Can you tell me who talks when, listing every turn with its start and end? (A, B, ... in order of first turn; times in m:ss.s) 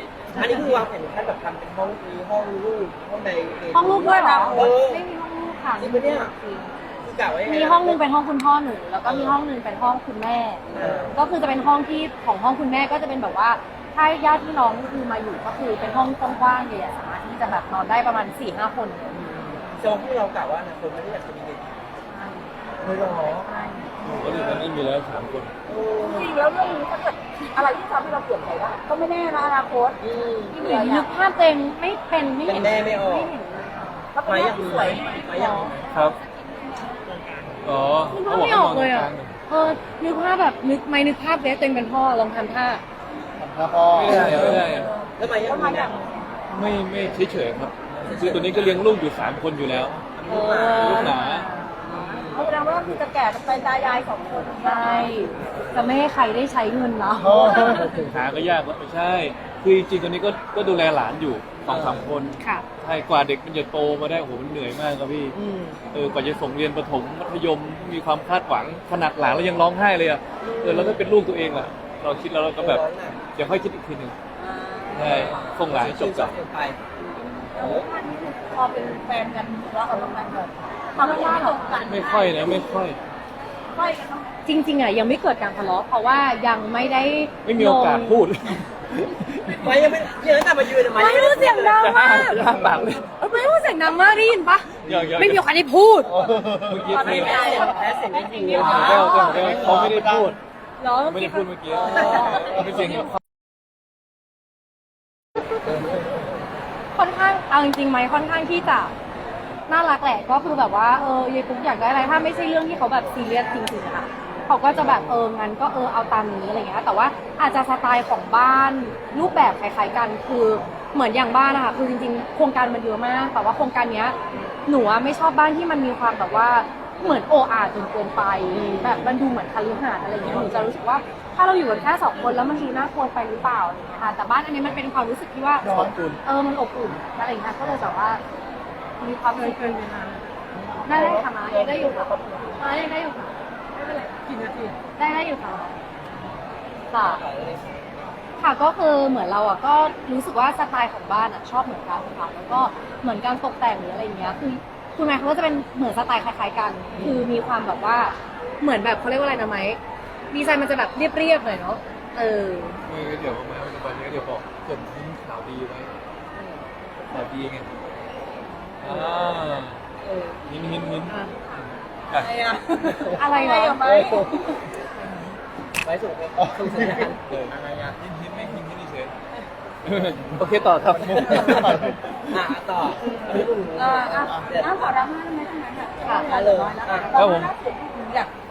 0:00.3-0:05.0 A
0:00.4-0:00.7 B
0:03.7-0:19.1 B
0:03.8-0:04.7 C
0:05.8-0:06.3 A
0:07.0-0:08.0 A
0:09.0-0:09.4 A
0:10.7-0:11.2 A
0:19.1-0:21.8 A
0:22.0-0:22.5 B
0:22.8-0:23.5 A
0:23.1-0:23.9 B
0:24.0-0:25.5 D
0:24.0-0:24.5 A
0:25.7-0:26.3 A
0:26.0-0:31.1 C
0:30.0-0:30.6 A
0:30.6-0:34.0 B
0:32.4-0:33.3 A
0:34.1-0:37.0 C
0:34.2-0:35.9 A
0:35.3-0:35.7 B
0:35.9-0:36.2 D
0:37.0-0:37.7 A
0:37.6-0:39.3 D
0:38.1-0:42.8 B
0:43.4-0:44.6 E
0:43.9-0:44.9 D
0:44.1-0:46.0 A
0:44.2-0:46.2 C
0:46.5-0:50.0 D
0:47.9-0:49.0 A
0:49.6-0:51.1 A
0:50.2-0:51.9 B
0:50.5-0:50.9 C
0:50.7-0:51.5 D
0:51.8-0:52.6 A
0:52.1-0:55.3 C
0:54.6-0:57.9 B
0:57.2-0:57.9 E
0:57.6-0:58.2 A
0:58.0-1:05.4 D
1:01.6-1:02.1 A
1:02.4-1:02.6 B
1:05.3-1:05.8 A
1:05.9-1:14.2 D
1:10.4-1:11.0 A
1:12.5-1:13.2 A
1:14.4-1:15.4 C
1:14.9-1:16.4 D
1:15.0-1:16.8 A
1:17.3-1:22.7 C
1:17.6-1:17.8 A
1:19.9-1:20.5 B
1:21.0-1:21.8 B
1:21.8-1:23.0 D
1:23.7-1:24.3 C
1:24.4-1:28.2 B
1:27.4-1:29.9 D
1:29.6-1:31.9 A
1:30.9-1:32.6 B
1:31.8-1:33.2 D
1:33.2-1:36.2 B
1:34.8-1:35.4 D
1:36.0-1:37.2 E
1:36.6-1:37.5 D
1:36.9-1:39.5 C
1:37.0-1:39.2 A
1:37.3-1:37.9 B
1:38.5-1:40.4 D
1:38.5-1:39.6 B
1:38.6-1:40.4 E
1:40.8-1:42.4 B
1:41.0-1:43.1 D
1:41.7-1:42.6 C
1:41.9-1:42.4 A
1:45.7-1:46.2 A
1:46.9-1:48.9 B
1:49.7-2:04.2 B
1:54.7-1:55.2 A
2:04.7-2:15.7 B
2:08.5-2:09.1 A
2:10.2-2:10.6 A
2:15.6-2:16.0 E
2:15.6-2:16.2 D
2:16.2-2:18.2 B
2:19.0-2:20.2 B
2:20.6-2:22.6 A
2:20.8-2:23.3 B
2:23.8-2:24.8 C
2:24.9-2:25.8 B
2:26.9-2:27.2 B
2:26.9-2:28.2 A
2:28.4-2:39.8 B
2:36.9-2:37.2 A
2:40.3-2:42.8 B
2:42.8-2:45.9 D
2:47.1-2:47.7 D
2:48.8-2:49.8 D
2:50.0-2:50.4 C
2:50.5-2:52.3 D
2:51.0-2:51.4 B
2:52.1-2:55.3 C
2:53.1-2:53.8 B
2:53.8-2:54.4 A
2:55.8-2:58.0 A
2:56.4-2:57.1 E
2:57.3-2:59.1 D
2:59.8-3:02.0 D
3:00.9-3:02.0 E
3:02.3-3:04.9 A
3:03.7-3:08.3 C
3:04.1-3:04.5 E
3:06.0-3:06.3 B
3:06.2-3:07.2 A
3:07.1-3:07.5 D